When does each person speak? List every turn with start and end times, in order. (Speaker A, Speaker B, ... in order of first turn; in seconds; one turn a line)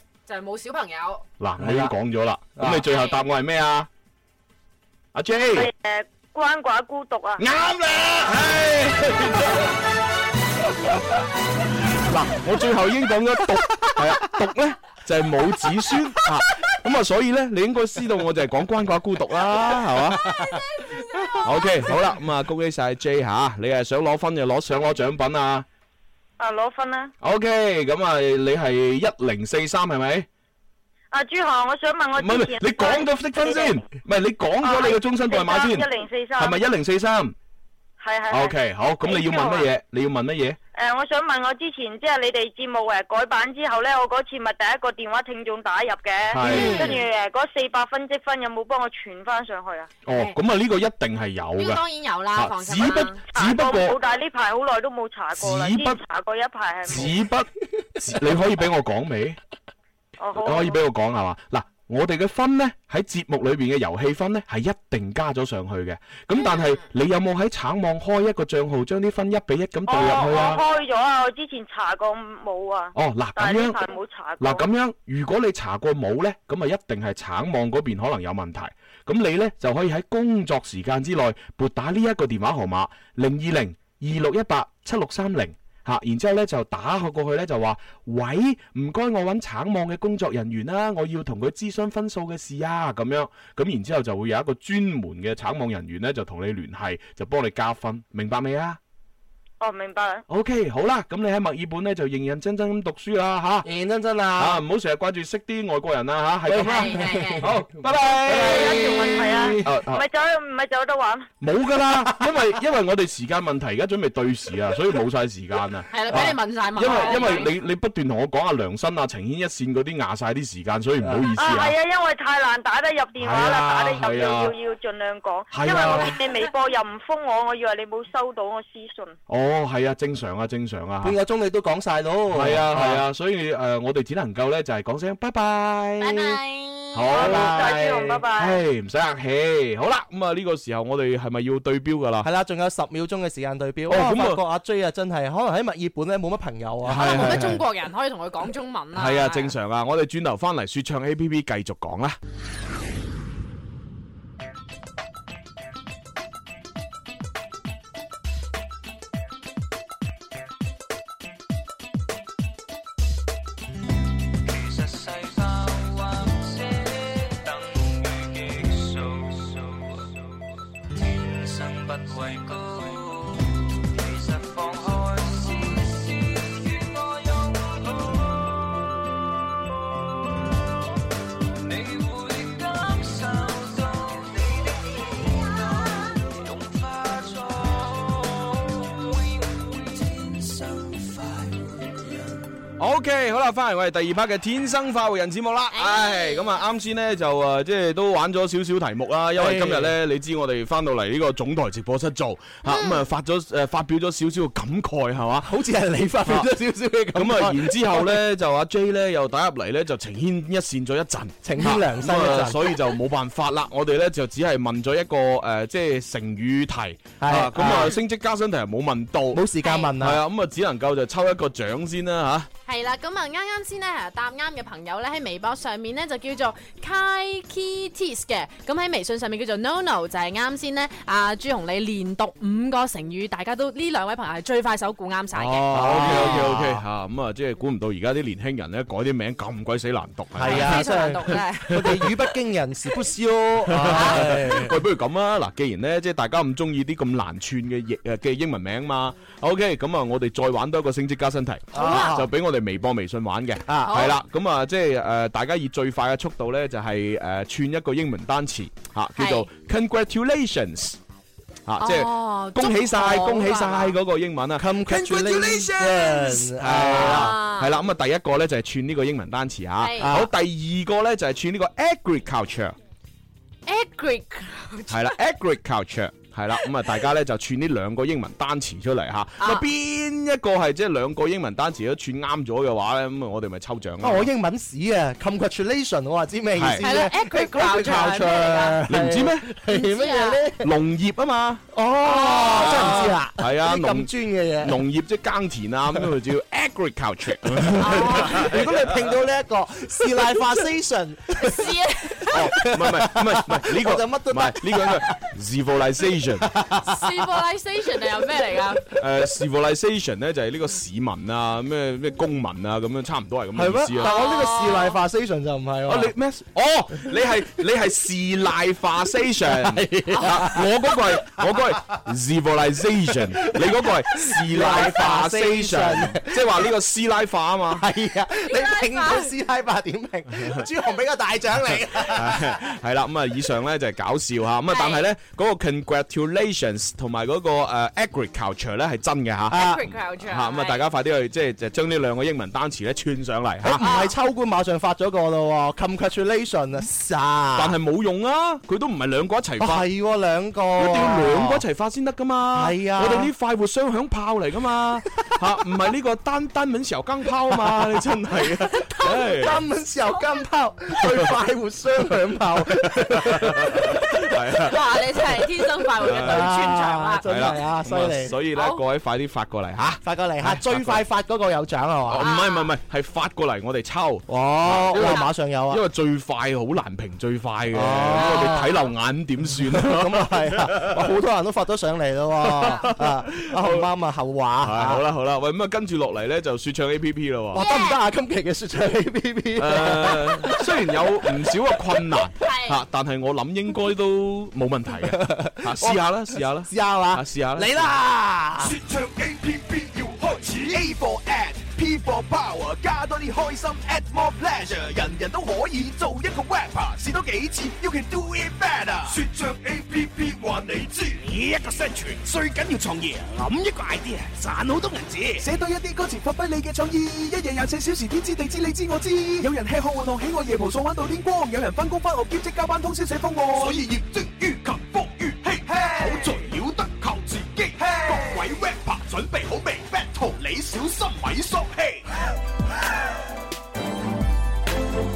Speaker A: 0.3-1.2
Speaker B: 1.4-3.9
Speaker C: 1.6-1.9
Speaker C: 2.6-2.8
Speaker A: 2.9-3.2
Speaker B: 5.1-5.7
Speaker D: 5.5-7.4
Speaker B: 7.4-9.7
Speaker B: 12.0-20.3
Speaker B: 21.4-25.6
Speaker D: 26.4-27.1
Speaker B: 27.2-30.3
Speaker D: 31.1-33.8
Speaker B: 32.2-35.9
Speaker D: 34.6-36.6
Speaker B: 36.4-37.3
Speaker D: 38.0-39.7
Speaker B: 38.3-40.6
Speaker D: 40.8-49.9
Speaker B: 46.3-47.0
Speaker A: 46.5-47.0
Speaker B: 50.0-51.8
Speaker A: 50.1-50.4
Speaker A: 51.5-53.2
Speaker B: 52.3-54.0
Speaker D: 53.3-57.1
Speaker B: 55.4-56.0
Speaker B: 56.9-59.4
Speaker D: 60.2-60.8
Speaker B: 60.4-70.6
Speaker A: 66.4-66.8
Speaker D: 69.9-74.6
Speaker B: 72.9-73.8
Speaker B: 74.4-98.8
Speaker D: 99.6-100.2
Speaker B: 100.3-103.7
Speaker C: 103.6-104.6
Speaker B: 104.4-108.9
Speaker C: 106.5-107.7
Speaker A: 106.6-107.5
Speaker C: 108.2-109.6
Speaker D: 108.3-111.3
Speaker B: 109.6-110.0
Speaker B: 111.4-121.7
Speaker A: 115.9-117.5
Speaker C: 121.0-121.3
Speaker D: 121.3-129.2
Speaker B: 123.2-124.5
Speaker B: 125.5-126.2
Speaker C: 125.7-126.1
Speaker B: 129.3-131.2
Speaker C: 131.0-133.0
Speaker B: 132.3-136.4
Speaker A: 136.0-137.0
Speaker B: 136.9-142.3
Speaker D: 137.1-138.6
Speaker C: 137.1-138.1
Speaker C: 142.2-147.5
Speaker B: 143.9-144.4
Speaker B: 146.8-147.6
Speaker A: 147.0-149.5
Speaker B: 148.9-152.2
Speaker E: 164.4-178.8
Speaker E: 181.6-192.4
Speaker B: 192.8-205.5
Speaker A: 195.7-196.6
Speaker C: 199.3-199.9
Speaker A: 202.6-203.0
Speaker C: 205.4-208.2
Speaker B: 206.2-206.5
Speaker B: 207.1-219.4
Speaker C: 211.4-212.8
Speaker C: 217.2-218.0
Speaker C: 219.3-220.2
Speaker A: 219.6-219.9
Speaker B: 220.0-222.5
Speaker A: 222.7-236.4
Speaker B: 235.3-241.0
Speaker C: 235.7-236.8
Speaker C: 240.3-244.8
Speaker A: 240.4-242.1
Speaker B: 241.7-242.1
Speaker B: 243.7-261.0
Speaker A: 243.9-244.2
Speaker C: 251.7-252.3
Speaker A: 251.7-252.2
Speaker C: 253.7-254.0
Speaker A: 253.8-254.1
Speaker A: 259.1-259.5
Speaker B: 261.6-272.7
Speaker A: 261.8-263.9
Speaker C: 264.6-267.4
Speaker A: 266.9-267.8
Speaker A: 269.8-270.1
Speaker C: 270.0-270.3
Speaker A: 273.7-275.1
Speaker B: 274.9-284.3
Speaker A: 279.4-279.6
Speaker C: 284.0-290.7
Speaker B: 286.6-286.8
Speaker A: 286.8-288.8
Speaker B: 288.9-289.5
Speaker A: 289.7-290.4
Speaker B: 290.6-291.6
Speaker C: 291.7-294.8
Speaker A: 292.0-293.1
Speaker B: 292.4-298.7
Speaker A: 297.8-298.5
Speaker C: 297.8-301.7
Speaker A: 301.4-302.5
Speaker C: 302.3-305.1
Speaker B: 302.3-306.5
Speaker C: 306.4-307.3
Speaker A: 306.8-308.9
Speaker B: 308.9-314.3
Speaker C: 313.5-316.1
Speaker A: 314.0-315.0
Speaker B: 315.9-327.9
Speaker C: 319.5-321.5
Speaker A: 320.1-320.5
Speaker C: 323.4-326.7
Speaker C: 327.8-332.6
Speaker A: 328.5-329.3
Speaker B: 332.1-343.8
Speaker A: 334.7-335.1
Speaker C: 339.5-339.8
Speaker A: 339.5-340.8
Speaker C: 343.6-347.8
Speaker A: 343.8-344.1
Speaker B: 347.5-349.9
Speaker C: 349.6-351.6
Speaker B: 350.8-359.6
Speaker C: 352.5-353.3
Speaker C: 357.6-358.0
Speaker A: 358.9-359.1
Speaker C: 359.0-364.2
Speaker B: 361.0-361.3
Speaker B: 362.7-364.8
Speaker A: 364.6-367.3
Speaker B: 366.0-366.5
Speaker C: 366.0-368.4
Speaker B: 367.2-371.0
Speaker A: 368.5-368.8
Speaker C: 370.0-372.3
Speaker B: 372.1-381.1
Speaker A: 372.2-372.7
Speaker C: 374.3-375.8
Speaker A: 374.9-375.3
Speaker C: 377.7-378.9
Speaker C: 379.6-385.0
Speaker B: 382.6-383.9
Speaker A: 382.6-382.9
Speaker B: 384.6-387.6
Speaker C: 387.5-390.7
Speaker A: 387.5-388.0
Speaker B: 389.6-397.7
Speaker A: 392.4-392.8
Speaker C: 395.0-396.0
Speaker C: 396.6-398.8
Speaker F: 398.6-414.5
Speaker F: 415.2-432.0